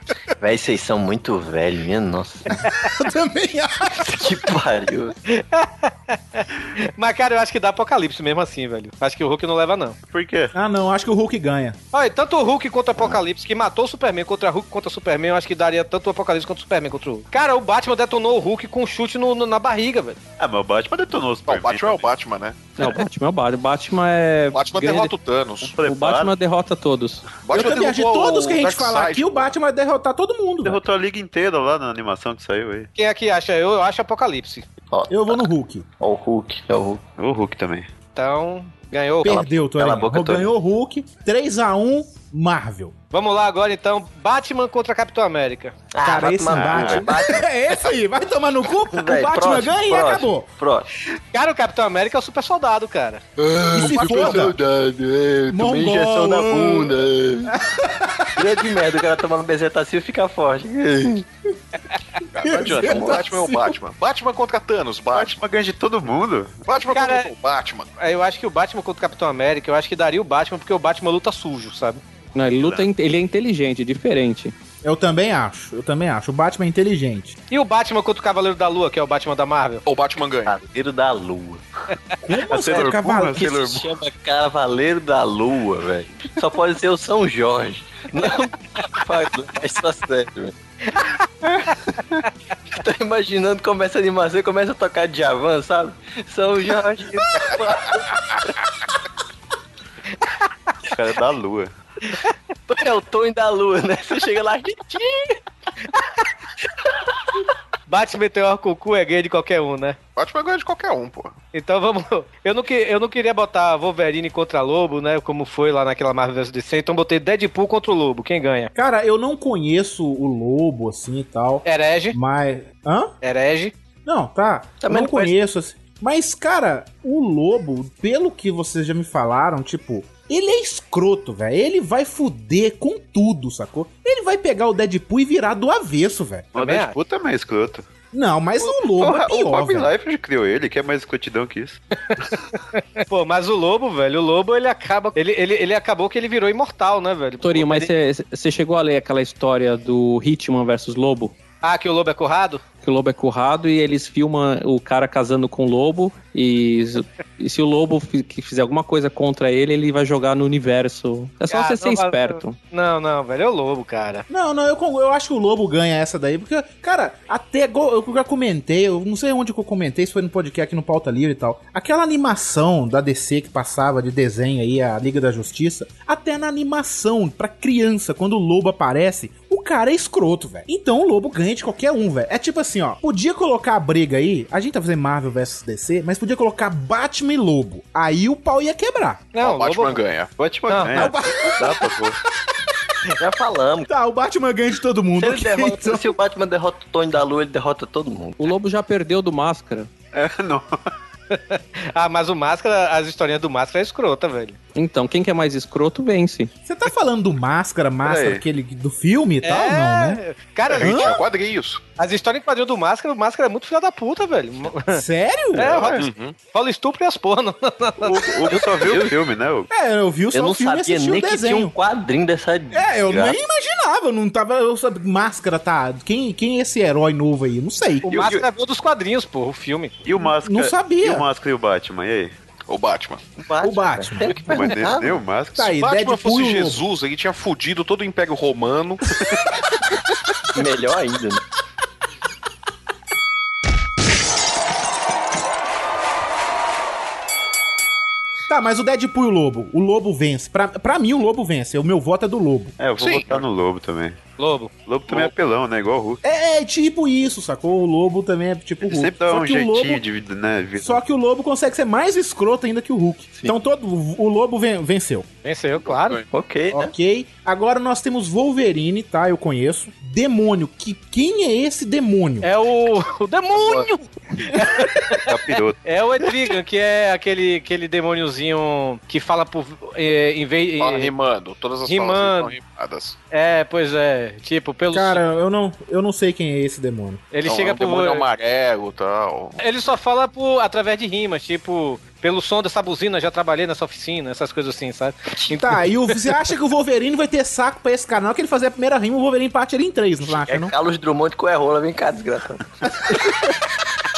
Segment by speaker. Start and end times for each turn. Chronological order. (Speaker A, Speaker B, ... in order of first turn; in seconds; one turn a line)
Speaker A: 0.4-2.5
Speaker B: 2.8-4.2
Speaker A: 4.0-5.1
Speaker C: 5.3-9.9
Speaker D: 10.1-10.5
Speaker B: 10.5-11.8
Speaker C: 11.9-20.2
Speaker D: 20.4-22.1
Speaker E: 21.5-22.8
Speaker F: 22.8-25.1
Speaker E: 24.5-25.7
Speaker D: 25.6-26.3
Speaker F: 25.8-27.3
Speaker E: 27.4-29.5
Speaker B: 27.5-30.8
Speaker D: 30.6-32.9
Speaker C: 33.0-34.6
Speaker A: 34.9-35.4
Speaker B: 35.1-35.9
Speaker A: 36.0-37.0
Speaker D: 37.2-37.9
Speaker C: 38.1-39.5
Speaker B: 39.2-42.9
Speaker A: 39.6-40.5
Speaker C: 43.1-45.7
Speaker A: 45.9-47.5
Speaker B: 46.0-50.5
Speaker D: 46.5-47.0
Speaker A: 48.9-50.9
Speaker C: 51.3-53.2
Speaker A: 53.4-57.5
Speaker B: 53.7-54.5
Speaker B: 55.5-56.9
Speaker B: 57.5-58.4
Speaker A: 58.4-61.2
Speaker E: 62.3-65.4
Speaker B: 62.4-63.8
Speaker A: 62.7-63.3
Speaker D: 65.1-66.6
Speaker E: 66.7-67.9
Speaker C: 66.9-67.3
Speaker C: 68.0-72.0
Speaker F: 72.3-74.5
Speaker D: 72.6-72.9
Speaker B: 74.8-77.3
Speaker C: 77.5-79.8
Speaker E: 79.8-80.6
Speaker A: 80.5-81.6
Speaker B: 82.2-83.6
Speaker D: 82.5-83.8
Speaker A: 82.5-90.5
Speaker C: 90.9-91.2
Speaker A: 92.7-98.1
Speaker D: 100.9-101.7
Speaker A: 102.7-105.4
Speaker C: 107.9-110.0
Speaker E: 110.2-111.4
Speaker C: 111.5-118.7
Speaker B: 118.7-123.1
Speaker C: 121.6-122.2
Speaker C: 123.2-123.7
Speaker B: 124.0-136.5
Speaker A: 124.8-125.3
Speaker D: 136.5-137.9
Speaker C: 136.6-136.9
Speaker B: 138.1-139.9
Speaker D: 138.7-141.8
Speaker C: 142.7-147.9
Speaker F: 147.4-151.3
Speaker C: 151.6-152.6
Speaker F: 152.8-162.6
Speaker C: 161.5-164.2
Speaker B: 164.3-189.3
Speaker C: 189.3-190.0
Speaker E: 189.4-190.3
Speaker D: 190.4-192.2
Speaker C: 190.7-191.1
Speaker B: 190.9-191.9
Speaker A: 193.2-193.9
Speaker B: 193.9-196.1
Speaker A: 195.2-198.5
Speaker F: 198.4-199.9
Speaker D: 200.1-200.8
Speaker C: 201.3-204.6
Speaker F: 204.7-206.5
Speaker B: 206.7-210.2
Speaker D: 208.0-208.4
Speaker C: 209.4-211.1
Speaker E: 210.7-211.8
Speaker B: 210.8-211.2
Speaker C: 212.0-215.0
Speaker B: 214.9-215.8
Speaker C: 215.6-218.6
Speaker D: 215.6-215.9
Speaker E: 216.0-216.3
Speaker D: 218.0-219.7
Speaker A: 218.5-219.2
Speaker B: 219.7-221.7
Speaker A: 220.3-223.3
Speaker B: 222.7-228.2
Speaker C: 228.0-229.9
Speaker D: 228.1-228.4
Speaker D: 230.0-232.3
Speaker B: 230.4-231.2
Speaker E: 232.7-233.3
Speaker A: 233.4-235.3
Speaker B: 233.6-234.7
Speaker D: 234.4-235.7
Speaker B: 235.5-236.8
Speaker E: 235.7-239.0
Speaker A: 240.5-241.4
Speaker B: 248.5-252.8
Speaker D: 252.8-254.2
Speaker E: 253.0-253.4
Speaker C: 254.4-254.7
Speaker D: 254.8-256.2
Speaker B: 256.2-260.0
Speaker D: 258.8-261.0
Speaker B: 260.8-265.3
Speaker C: 265.4-266.2
Speaker E: 265.8-266.2
Speaker A: 266.3-266.9
Speaker B: 266.7-272.5
Speaker C: 272.4-275.2
Speaker D: 275.1-275.8
Speaker C: 275.8-281.1
Speaker E: 280.8-283.2
Speaker C: 281.9-282.5
Speaker C: 283.3-285.2
Speaker B: 284.9-287.2
Speaker C: 287.3-288.2
Speaker E: 287.4-289.6
Speaker C: 289.6-295.9
Speaker B: 295.5-300.7
Speaker A: 300.2-303.4